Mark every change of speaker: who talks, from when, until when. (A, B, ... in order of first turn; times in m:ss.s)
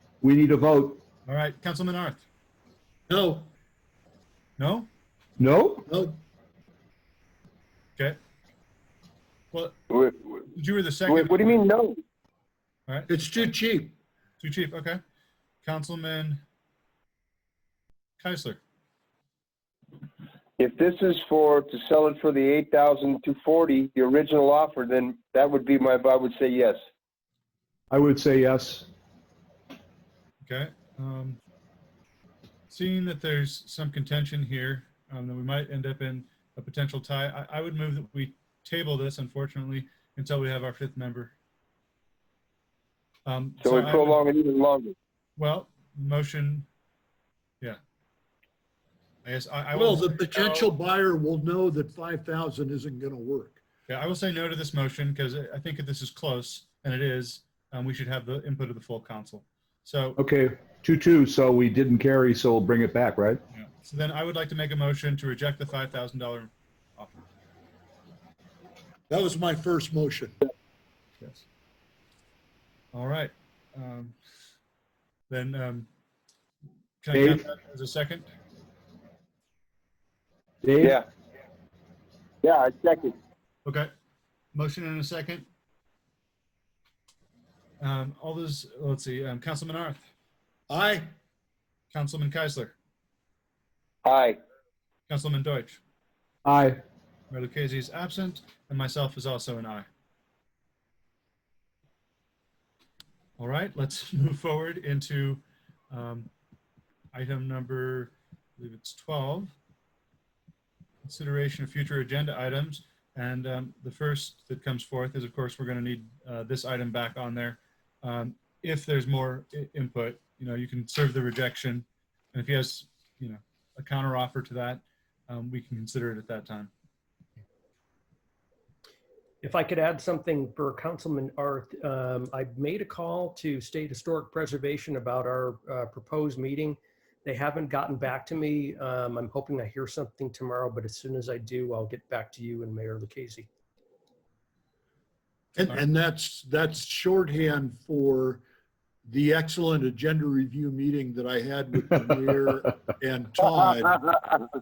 0:00.2-0:01.0 A
0:01.2-0:02.2 B
0:03.1-0:03.5 C
0:04.6-0:04.9 B
0:05.4-0:05.9 A
0:05.9-0:06.2 C
0:09.5-0:09.8 B
0:09.9-0:10.3 D
0:10.5-0:11.6 B
0:11.0-0:12.0 D
0:12.9-0:13.5 B
0:13.1-0:14.0 C
0:14.4-0:15.0 B
0:15.6-0:16.4 B
0:18.2-0:18.6 B
0:20.6-0:26.8 D
0:27.9-0:28.9 A
0:30.4-0:31.4 B
0:32.7-0:41.3 B
0:43.2-0:44.2 B
0:43.6-0:45.0 D
0:45.4-0:46.7 B
0:49.2-0:50.7 B
0:49.7-0:53.6 C
0:53.9-1:00.2 B
1:00.2-1:03.4 A
1:03.5-1:07.2 B
1:09.1-1:10.4 C
1:11.2-1:11.4 B
1:12.9-1:14.2 B
1:15.3-1:15.9 B
1:17.0-1:18.3 B
1:17.1-1:17.4 A
1:20.6-1:21.0 A
1:22.4-1:23.2 D
1:23.6-1:23.9 B
1:24.5-1:25.4 B
1:27.8-1:30.1 B
1:30.7-1:31.1 C
1:31.9-1:32.8 B
1:34.0-1:34.4 D
1:35.1-1:35.8 B
1:36.4-1:36.8 A
1:37.3-1:39.9 B
1:43.4-1:46.3 B
1:47.1-1:49.5 B
1:51.0-2:06.7 B
2:09.4-2:23.5 E
2:25.6-2:28.4 C
2:29.1-2:34.0 C